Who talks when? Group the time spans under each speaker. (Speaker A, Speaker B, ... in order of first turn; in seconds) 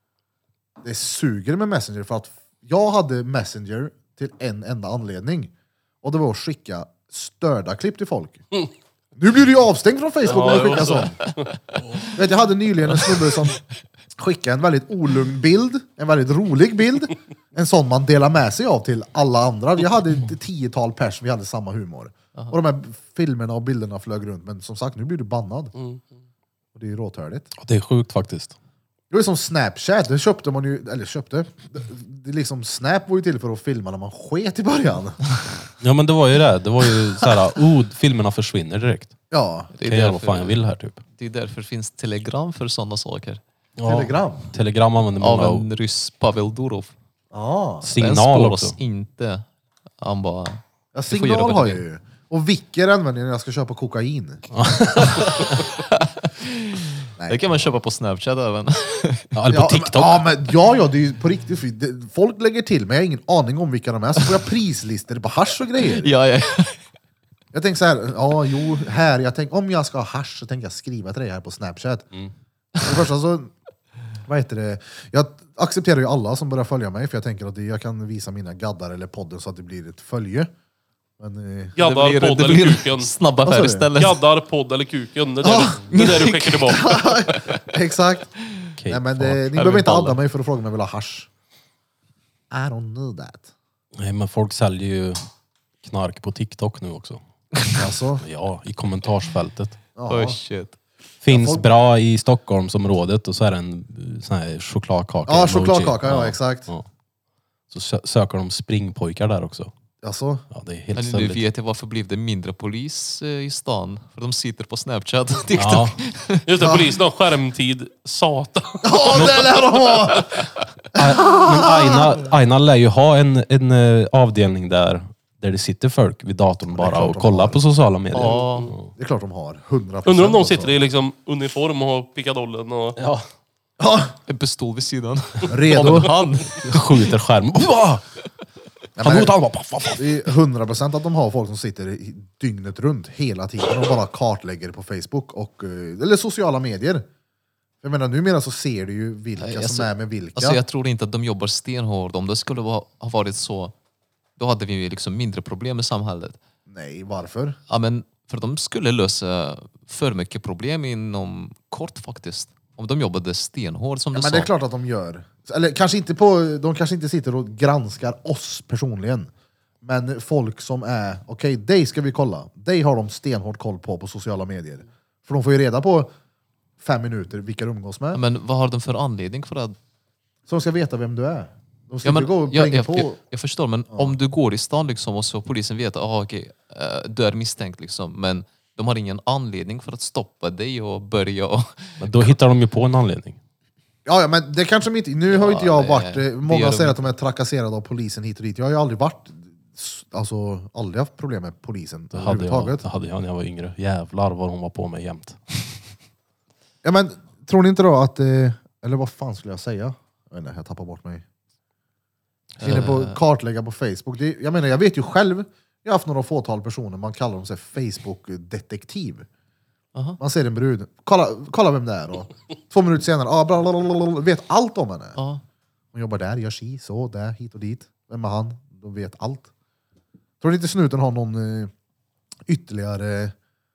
Speaker A: 0.8-5.5, 6.0-8.4, 9.2-11.2, 12.1-13.6, 14.2-25.7, 26.7-27.5, 29.1-35.4, 39.3-39.7, 43.8-44.5, 47.3-47.9, 50.9-54.5, 59.5-66.1, 67.5-72.1, 72.8-73.5, 74.2-80.5, 81.2-81.8, 83.5-83.9, 85.4-86.1, 86.7-88.3, 88.9-91.3, 92.5-93.5, 97.7-98.2, 100.0-100.4, 101.3-101.7, 105.3-106.7, 110.0-110.5, 116.6-116.9, 118.8-120.3, 121.0-122.2, 126.7-127.6, 128.9-130.8, 133.8-134.1, 135.5-136.1, 139.0-139.3, 139.9-147.1, 147.8-150.6, 156.7-157.6, 164.1-169.3, 169.8-176.1, 176.8-178.2, 180.5-183.2, 194.1-202.8, 206.8-211.2, 212.6-219.3, 220.2-225.2, 225.9-229.5, 230.4-231.7, 232.5-233.3
Speaker B: 10.2-11.3, 25.7-26.0, 81.8-83.1, 84.0-87.0, 116.5-119.5, 130.1-133.0
Speaker C: 27.6-28.6, 35.8-39.1, 39.8-41.0, 43.8-45.6, 47.8-48.8, 54.5-55.6, 59.3-60.2, 88.8-89.4, 94.0-95.2, 95.8-97.2, 98.2-99.8, 101.2-106.8, 107.7-109.7, 110.5-111.4, 115.5-116.0, 119.1-119.4, 121.0-128.9, 133.0-133.3, 136.6-138.0, 139.0-140.1, 192.0-193.4, 202.1-205.4
Speaker D: 39.7-40.6, 41.1-43.4, 45.2-46.9, 48.0-49.5, 50.0-51.8, 55.2-59.3, 65.8-66.8, 81.8-84.2, 85.9-87.6, 89.5-90.2, 100.1-100.8, 110.9-116.5, 128.1-128.7, 134.3-137.1, 149.4-153.7, 154.4-156.4, 157.7-164.5, 178.1-179.8, 182.0-192.3, 195.3-197.1, 212.6-213.2, 225.2-225.4